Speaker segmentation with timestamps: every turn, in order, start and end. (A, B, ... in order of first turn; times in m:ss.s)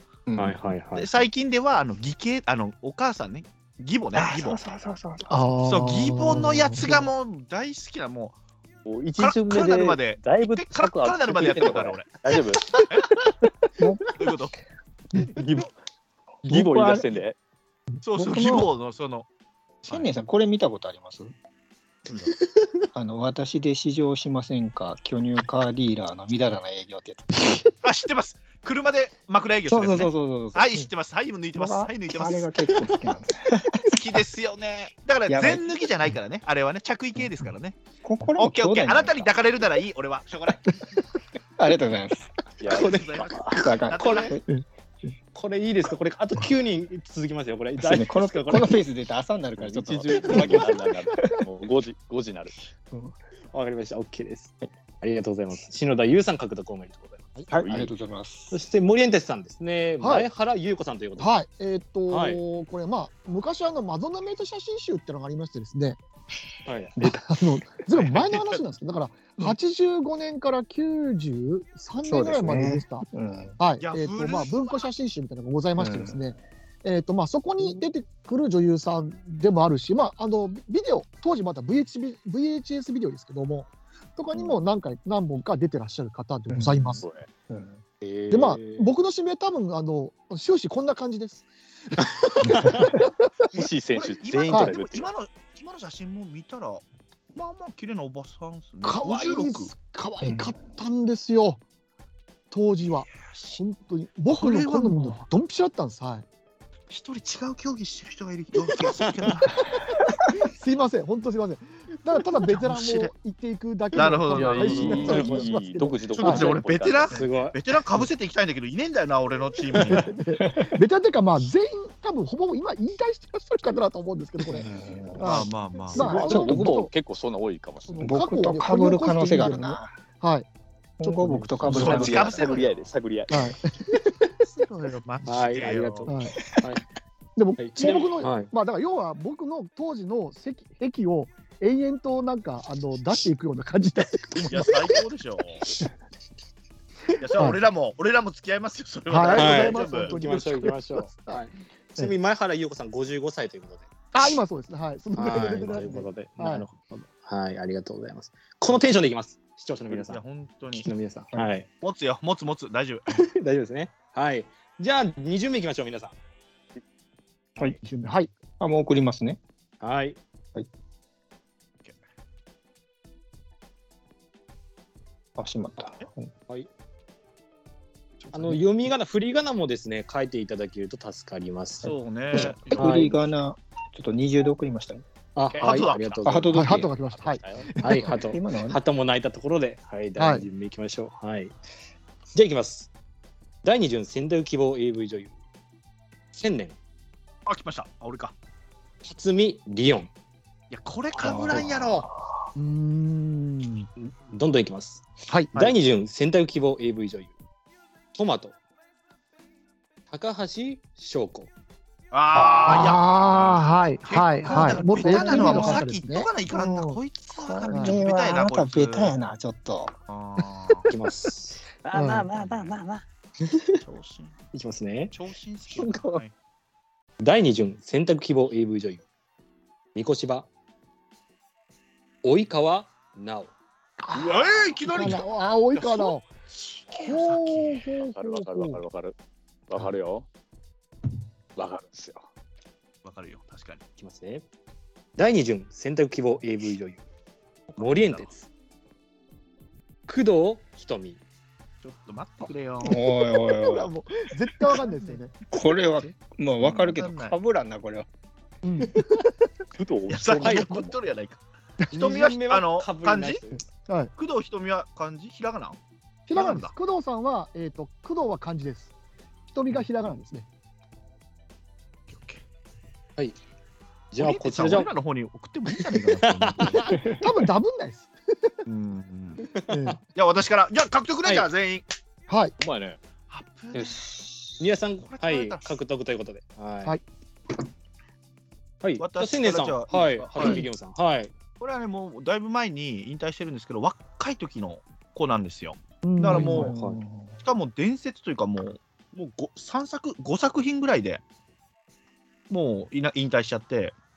0:00.3-0:00.8 A
0:00.4-0:01.2 B
0:00.9-0:04.6 C
0:04.1-0:05.3 A
0:05.3-0:07.1 D
0:05.6-0:08.4 C
0:08.9-0:12.9 E
0:09.2-0:12.2 C
0:12.8-0:13.2 C
0:13.8-0:14.0 A
0:14.2-0:14.5 C
0:15.1-0:15.7 E
0:16.5-0:17.2 A
0:16.5-0:17.4 E
0:18.0-0:19.3 C
0:18.2-0:18.7 A
0:19.8-0:20.1 C
0:19.9-0:21.3 A
0:22.1-0:22.3 C
0:22.9-0:27.4 A
0:27.8-0:32.5 C
0:29.7-0:30.7 A
0:31.6-0:33.8 A
0:33.9-0:37.8 C
0:35.3-0:35.7 A
0:38.0-0:39.3 A
0:38.4-0:40.7 C
0:41.6-0:42.3 A
0:42.6-0:43.0 E
0:42.6-0:44.3 B
0:42.8-0:44.4 C
0:43.5-0:44.4 A
0:45.4-0:48.8 B
0:47.8-0:50.8 A
0:49.6-0:52.6 E
0:50.2-0:50.7 B
0:53.5-0:57.3 B
0:57.5-0:58.6 A
0:57.5-0:57.9 E
0:58.5-1:01.3 B
1:00.0-1:00.3 D
1:01.2-1:06.0 D
1:02.1-1:02.4 B
1:06.7-1:07.0 B
1:07.0-1:07.2 A
1:07.0-1:13.0 D
1:07.9-1:08.6 C
1:12.0-1:13.6 A
1:13.6-1:27.0 D
1:13.8-1:14.9 C
1:15.8-1:16.4 A
1:26.5-1:27.8 A
1:27.0-1:27.3 E
1:28.0-1:28.9 B
1:28.3-1:33.1 D
1:33.5-1:35.1 E
1:33.9-1:36.8 C
1:37.3-1:39.8 C
1:38.8-1:41.6 D
1:40.2-1:40.6 A
1:42.5-1:46.3 D
1:43.2-1:43.6 C
1:44.3-1:45.2 C
1:46.9-1:49.7 C
1:48.9-1:49.3 B
1:50.4-1:56.5 D
1:52.5-1:53.1 C
1:53.9-1:55.5 C
1:54.3-1:57.2 E
1:56.1-2:00.1 C
1:57.1-1:57.6 B
1:59.8-2:04.7 D
2:00.4-2:00.8 A
2:04.5-2:06.8 A
2:05.2-2:06.9 D
2:05.2-2:06.3 C
2:06.0-2:08.2 E
2:07.9-2:10.5 D
2:08.0-2:10.0 A
2:11.0-2:12.6 A
2:11.1-2:11.9 D
2:11.3-2:12.0 B
2:11.7-2:13.6 E
2:11.7-2:12.9 C
2:13.3-2:13.7 D
2:14.4-2:16.1 C
2:15.2-2:16.8 B
2:16.1-2:16.4 D
2:17.4-2:25.0 D
2:17.6-2:18.5 B
2:24.5-2:25.6 C
2:27.2-2:30.2 C
2:29.1-2:31.4 D
2:29.3-2:33.9 B
2:34.1-2:36.7 D
2:35.2-2:41.7 B
2:39.9-2:40.9 C
2:41.8-2:43.2 C
2:43.1-2:46.1 B
2:47.8-2:48.3 D
2:48.6-2:49.4 A
2:49.8-2:50.2 B
2:55.4-2:56.3 A
2:58.2-2:58.6 A
2:58.3-3:03.2 B
3:01.8-3:03.0 C
3:02.3-3:05.0 A
3:05.4-3:06.9 B
3:05.5-3:06.2 C
3:06.2-3:06.9 A
3:06.5-3:08.2 D
3:07.1-3:07.8 E
3:07.8-3:11.5 B
3:07.8-3:08.8 A
3:10.2-3:10.5 D
3:12.3-3:12.9 B
3:13.6-3:15.3 B
3:16.3-3:16.8 B
3:17.5-3:18.4 C
3:19.0-3:20.1 B
3:20.7-3:22.1 C
3:21.2-3:22.1 A
3:21.5-3:21.8 B
3:22.6-3:23.9 D
3:24.0-3:27.3 B
3:25.3-3:25.5 D
3:28.1-3:28.6 B
3:30.1-3:31.5 B
3:32.1-3:39.2 C
3:32.6-3:36.4 D
3:34.5-3:35.8 A
3:36.5-3:39.9 A
3:37.7-3:38.0 D
3:40.1-3:40.9 C
3:40.9-3:41.6 B
3:41.8-3:43.0 E
3:41.9-3:42.3 D
3:42.4-3:42.7 C
3:43.4-3:43.8 B
3:43.8-3:44.3 C
3:44.5-3:45.2 B
3:45.1-3:46.3 C
3:47.2-3:49.0 B
3:50.0-3:50.5 B
3:52.2-3:53.5 B
3:54.0-3:56.3 D
3:54.1-3:56.1 C
3:56.7-3:57.9 C
3:56.9-3:58.8 D
3:58.0-3:59.2 E
3:59.7-4:00.3 E
4:01.6-4:02.2 E
4:03.0-4:03.8 C
4:04.0-4:04.5 B
4:05.2-4:07.0 B
4:07.7-4:08.3 C
4:07.8-4:08.5 B
4:10.1-4:11.2 B
4:11.8-4:13.0 C
4:12.8-4:13.9 A
4:13.6-4:15.3 D
4:14.7-4:15.2 C
4:15.5-4:18.1 A
4:15.8-4:17.4 C
4:18.6-4:19.3 D
4:19.8-4:21.0 E
4:20.1-4:21.4 C
4:20.4-4:20.7 B
4:21.9-4:23.6 B
4:21.9-4:23.4 C
4:23.5-4:24.1 D
4:24.2-4:25.8 C
4:26.3-4:28.9 D
4:26.3-4:26.7 C
4:29.5-4:30.5 D
4:32.1-4:32.4 C
4:34.1-4:34.9 B
4:34.2-4:37.1 C
4:35.8-4:36.9 B
4:36.9-4:38.5 D
4:36.9-4:37.2 A
4:38.7-4:39.5 C
4:39.4-4:40.0 B
4:39.7-4:40.0 D
4:40.1-4:41.8 C
4:41.2-4:41.5 B
4:42.3-4:42.5 D
4:42.6-4:43.0 E
4:43.3-4:44.0 C
4:43.8-4:44.4 A
4:44.6-4:47.0 B
4:45.0-4:45.8 C
4:48.8-4:51.3 B
4:49.0-4:50.6 C
4:51.6-4:56.7 C
4:56.0-4:56.7 D
4:56.3-4:57.0 B
4:56.3-4:57.4 A
4:57.4-5:01.2 C
5:02.5-5:04.0 C